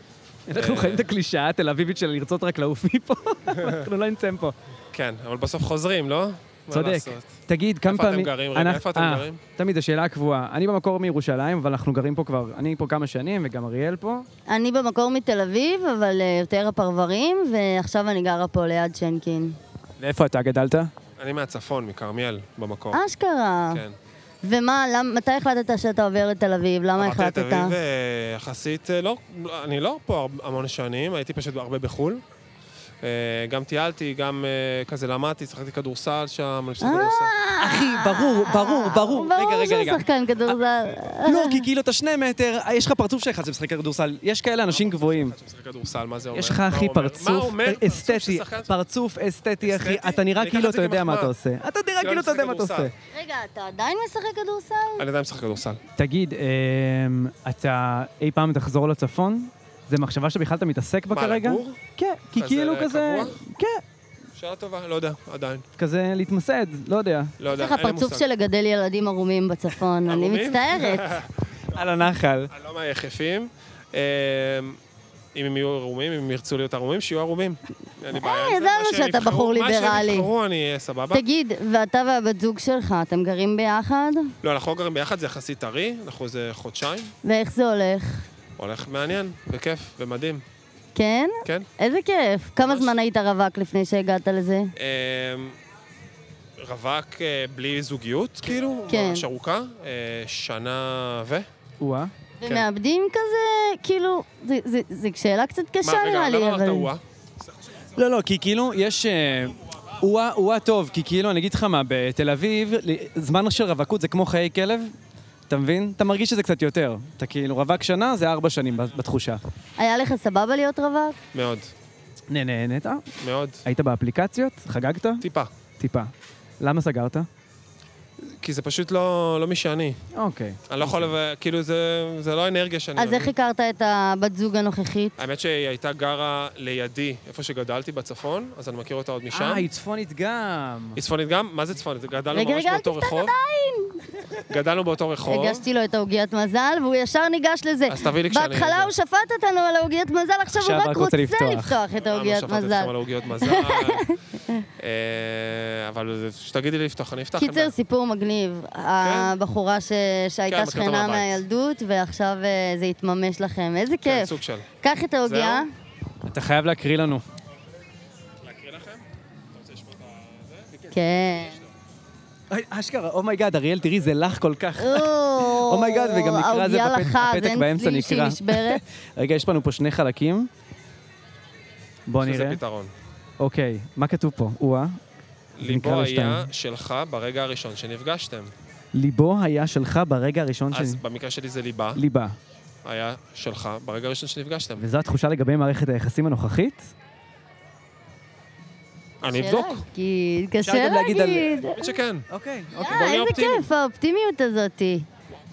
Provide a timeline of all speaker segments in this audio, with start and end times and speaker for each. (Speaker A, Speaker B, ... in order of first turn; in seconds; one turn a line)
Speaker A: 0.5-4.5
Speaker B: 0.5-1.0
Speaker B: 4.9-7.3
Speaker A: 6.7-14.2
Speaker B: 7.9-9.4
Speaker C: 14.5-19.6
Speaker A: 20.0-20.9
Speaker B: 21.2-23.0
Speaker C: 22.9-23.8
Speaker B: 23.7-23.9
Speaker C: 24.4-27.7
Speaker B: 27.0-32.2
Speaker B: 33.0-37.3
Speaker C: 36.8-41.6
Speaker A: 37.6-40.1
Speaker A: 41.2-45.3
Speaker B: 44.7-48.7
Speaker A: 46.3-52.9
Speaker B: 49.6-51.3
Speaker B: 52.0-52.9
Speaker C: 53.1-55.0
Speaker B: 55.0-55.8
Speaker A: 56.0-63.8
Speaker B: 61.1-61.8
Speaker B: 62.4-63.4
Speaker B: 64.3-65.6
Speaker A: 65.8-67.3
Speaker B: 67.4-68.2
Speaker C: 67.5-71.2
Speaker B: 70.1-71.3
Speaker A: 71.7-72.5
Speaker B: 72.5-74.8
Speaker B: 75.3-81.2
Speaker C: 78.1-80.3
Speaker C: 81.1-84.3
Speaker B: 84.4-87.1
Speaker C: 87.2-88.2
Speaker B: 88.6-90.4
Speaker C: 90.9-94.7
Speaker B: 92.6-92.9
Speaker B: 94.8-95.5
Speaker B: 96.6-101.5
Speaker C: 98.9-99.2
Speaker A: 101.8-102.1
Speaker C: 102.4-106.9
Speaker B: 105.8-107.0
Speaker A: 108.0-114.9
Speaker A: 115.5-119.4
Speaker C: 119.8-121.2
Speaker B: 121.3-121.7
Speaker A: 122.3-123.0
Speaker B: 123.2-123.6
Speaker A: 123.6-125.2
Speaker B: 125.2-125.5
Speaker A: 125.8-127.3
Speaker B: 128.4-130.0
Speaker A: 130.1-131.1
Speaker B: 130.7-133.3
Speaker C: 133.0-135.1
Speaker B: 135.2-139.7
Speaker A: 139.3-141.0
Speaker B: 140.9-143.3
Speaker C: 142.3-144.0
Speaker B: 144.5-145.6
Speaker C: 145.2-154.6
Speaker B: 147.9-148.9
Speaker A: 150.5-151.8
Speaker B: 152.0-154.1
Speaker B: 154.8-157.7
Speaker C: 157.4-165.7
Speaker B: 159.0-159.3
Speaker B: 160.5-161.4
Speaker B: 164.0-164.7
Speaker B: 165.2-165.7
Speaker A: 166.2-167.2
Speaker B: 168.4-169.0
Speaker B: 169.5-171.7
Speaker C: 170.9-171.6
Speaker A: 172.5-180.5
Speaker C: 174.8-178.8
Speaker A: 182.1-182.6
Speaker B: 182.2-182.9
Speaker A: 183.4-185.0
Speaker B: 185.6-188.5
Speaker A: 185.6-186.5
Speaker A: 188.9-191.0
Speaker B: 190.7-192.0
Speaker A: 191.9-192.3
Speaker B: 192.8-194.8
Speaker A: 194.8-196.9
Speaker B: 199.2-199.8
Speaker C: 199.3-201.8
Speaker A: 200.6-201.7
Speaker B: 201.6-202.2
Speaker A: 202.3-203.3
Speaker C: 202.8-205.1
Speaker B: 202.9-203.7